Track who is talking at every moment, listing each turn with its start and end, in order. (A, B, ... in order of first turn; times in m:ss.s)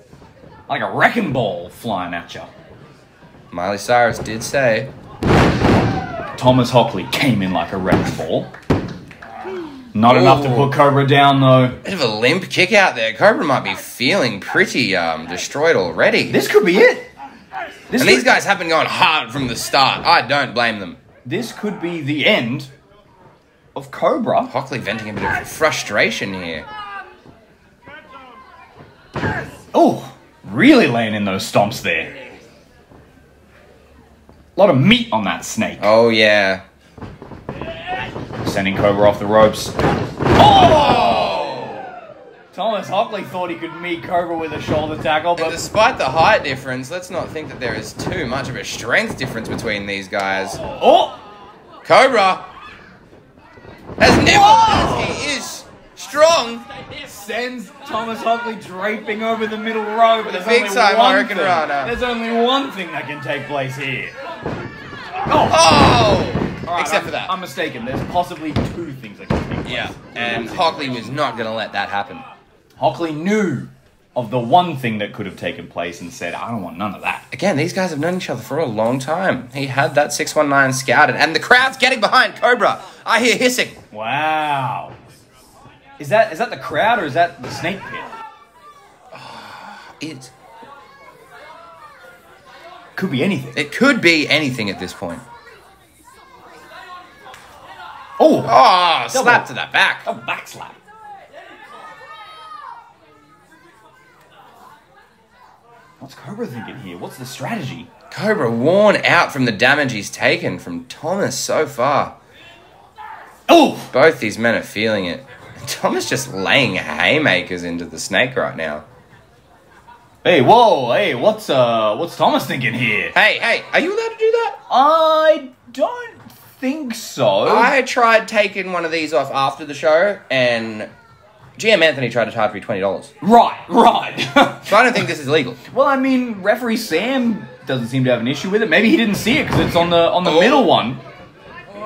0:00.7-0:02.5 A
0:03.5-0:04.9 B
0:06.4-0:08.5 A
0:09.9-0:11.8 A
0:10.1-0:10.8 B
0:11.8-0:16.4 B
0:16.3-0:17.1 A
0:17.9-0:18.4 A
0:18.0-0:21.0 B
0:21.3-0:22.7 A
0:23.8-0:24.5 A
0:24.5-0:26.7 B
0:29.7-0:32.3 A
0:34.6-0:35.9 A
0:35.8-0:36.6 B
0:38.4-0:39.8 A
0:40.3-0:41.8 A
0:40.4-0:41.8 B
0:42.5-0:45.6 A
0:45.4-0:50.6 B
0:50.6-0:51.2 A
0:51.8-0:52.5 B
0:54.0-0:56.6 B
0:54.2-0:55.3 A
0:57.0-1:04.1 A
1:00.2-1:02.0 B
1:05.3-1:05.7 A
1:05.5-1:07.4 B
1:06.6-1:11.2 A
1:09.6-1:12.2 B
1:12.8-1:17.3 A
1:17.3-1:23.8 B
1:23.9-1:25.0 A
1:26.0-1:28.1 A
1:29.1-1:30.3 B
1:33.0-1:33.6 A
1:33.6-1:35.2 B
1:38.2-1:38.6 A
1:38.4-1:40.1 B
1:39.1-1:39.5 A
1:40.0-1:40.8 A
1:46.0-1:47.9 A
1:48.1-1:52.2 B
1:53.5-1:53.9 A
1:53.9-1:58.8 B
2:00.2-2:03.2 A
2:03.1-2:04.6 B
2:04.7-2:07.8 A
2:07.4-2:10.9 B
2:11.6-2:13.1 B
2:13.2-2:15.1 A
2:14.7-2:15.6 B
2:15.7-2:21.0 A
2:20.2-2:20.7 B